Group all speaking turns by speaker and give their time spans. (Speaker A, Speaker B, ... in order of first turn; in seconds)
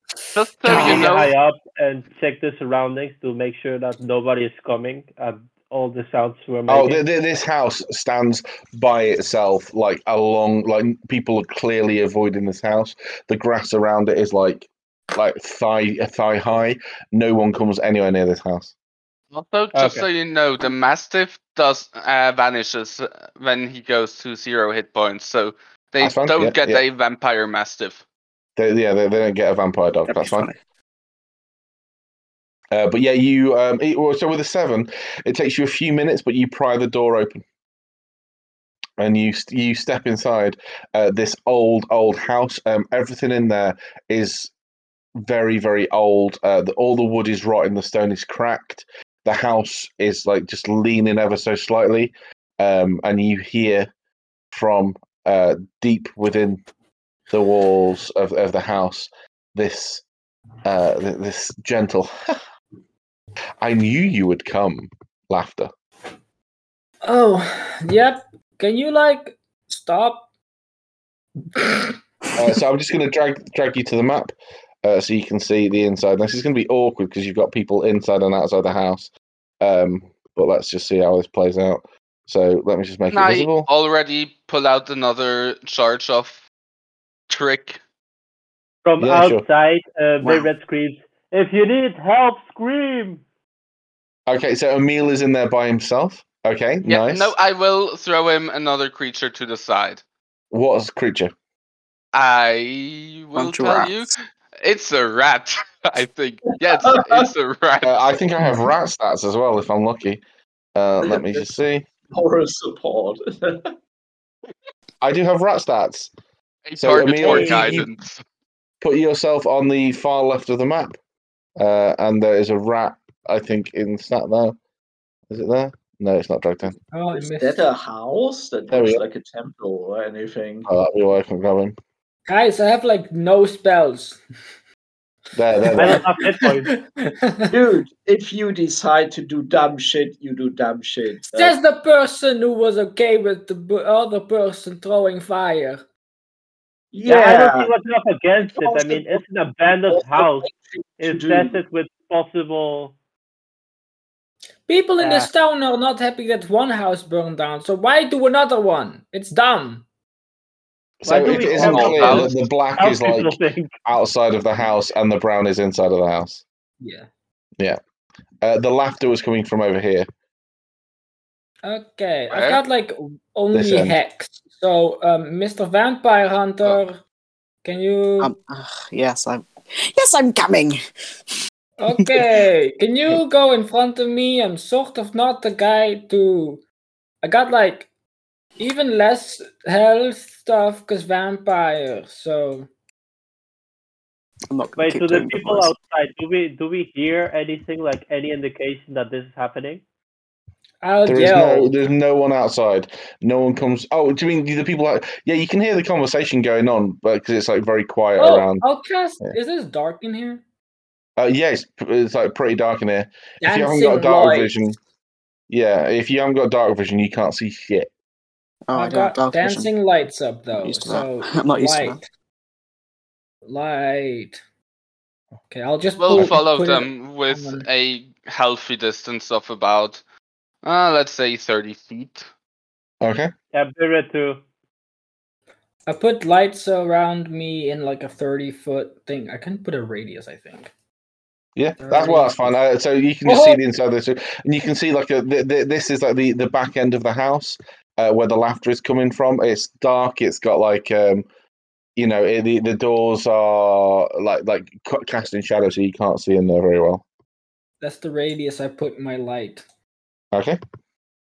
Speaker A: 0.2-1.1, 67.0-70.3, 71.5-72.0, 117.2-117.5, 126.9-127.7, 132.3-134.2, 135.6-137.5, 141.3-145.8, 154.7-159.8, 166.8-167.1, 171.6-177.0, 177.6-178.3, 181.8-186.6, 187.2-187.9, 188.6-192.7, 200.8-201.8, 208.2-210.4, 213.4-214.6, 218.7-222.1, 223.5-224.4, 225.5-227.7, 235.9-240.7, 241.8-242.6, 243.3-243.6, 257.8-259.6
Speaker B: 0.3-1.3, 19.3-28.0, 83.1-86.4, 87.3-87.8, 96.8-100.0, 102.1-108.1, 116.7-118.2, 161.2-162.3, 172.3-172.6, 226.0-230.0, 230.6-232.3
Speaker C: 0.7-7.0, 19.7-20.1, 88.8-93.2, 135.8-136.8, 147.1-150.5, 151.0-152.9, 155.0-155.3, 161.1-163.8, 194.8-199.8, 233.5-234.4
Speaker D: 6.7-18.7, 26.0-26.8, 28.6-30.5, 32.7-37.4, 39.0-44.5, 45.2-53.9, 54.5-56.6, 57.3-60.0, 60.6-62.4, 63.6-65.7, 72.4-83.7, 89.0-89.4, 94.3-97.3, 100.5-101.3, 107.8-110.2, 110.8-111.9, 115.0-116.1, 116.8-117.9, 118.8-121.0, 121.6-124.6, 125.3-126.8, 128.7-129.0, 130.7-131.7, 135.3-136.0, 161.0-166.4, 168.4-170.1, 173.5-174.0, 201.1-208.6, 211.2-214.8, 215.5-217.9, 233.0-233.3, 241.6-251.2, 252.0-257.0, 260.3-260.6
Speaker E: 30.1-30.6, 90.2-90.5, 103.3-104.1, 178.2-180.8, 181.9-182.2, 194.5-195.7, 218.7-219.7, 220.6-222.0
Speaker F: 106.8-107.2, 111.0-111.5, 112.1-113.7, 127.1-130.7, 137.5-141.6, 146.9-147.7, 148.4-151.6